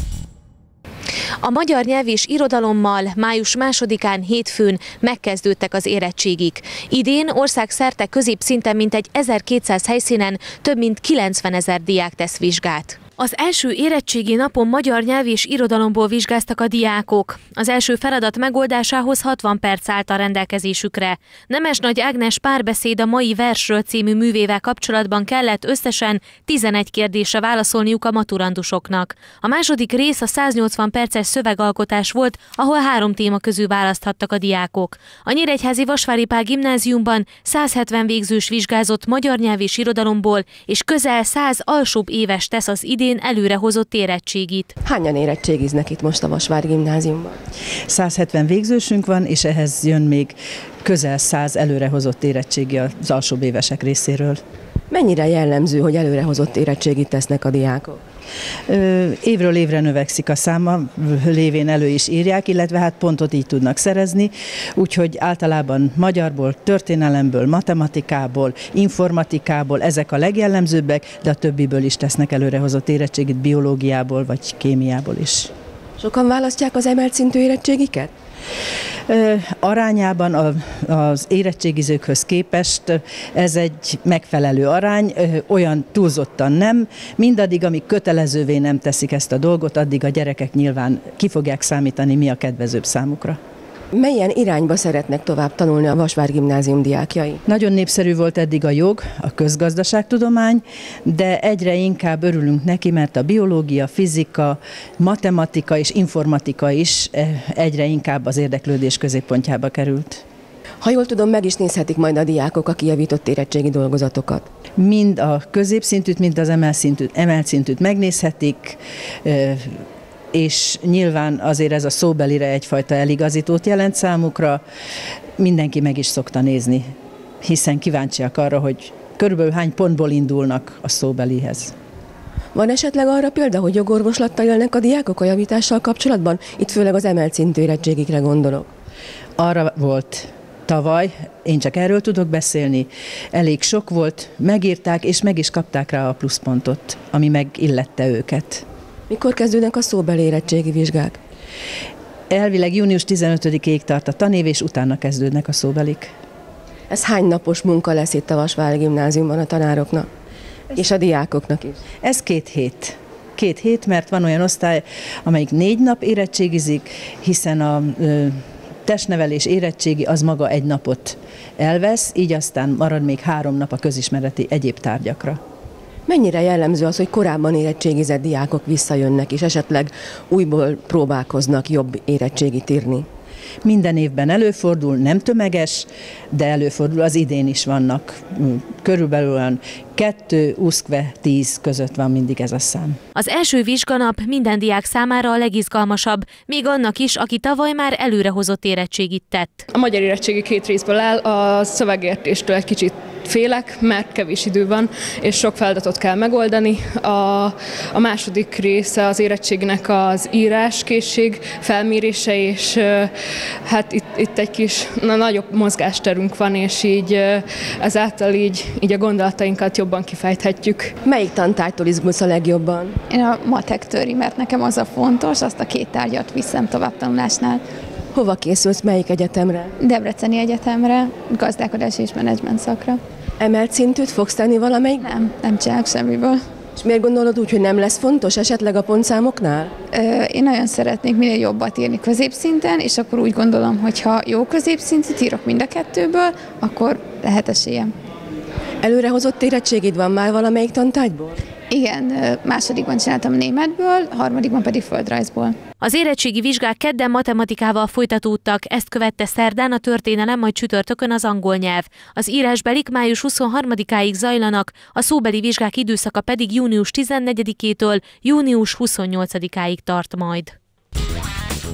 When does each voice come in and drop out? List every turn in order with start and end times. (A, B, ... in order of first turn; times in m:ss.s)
0:01.4-0:44.7 A
0:44.8-0:47.3 B
0:47.9-0:54.4 C
0:54.9-0:58.0 B
0:58.7-1:15.5 C
1:16.0-1:18.1 B
1:19.1-1:33.4 C
1:33.9-1:37.4 B
1:37.4-1:50.2 C
1:50.8-1:54.4 B
1:54.8-1:59.8 C
2:00.3-2:04.6 C
2:05.4-2:06.9 C
2:07.4-2:11.7 C
2:12.5-2:18.7 B
2:19.4-2:28.6 C
2:29.1-2:31.2 B
2:32.3-2:36.1 C
2:36.9-2:40.1 B
2:40.7-2:41.8 B
2:42.0-2:55.4 C
2:56.1-3:03.0 B
3:03.6-3:13.0 C
3:13.2-3:19.7 A
3:19.7-3:33.1 D
3:33.6-3:40.9 D
3:41.0-3:43.0 B
3:43.1-3:47.6 E
3:48.1-3:49.7 B
3:49.8-3:53.0 E
3:53.4-3:55.0 B
3:55.0-3:56.4 E
3:56.8-3:59.7 B
3:59.9-4:07.9 E
4:08.8-4:11.4 B
4:11.7-4:15.6 E
4:15.8-4:30.5 A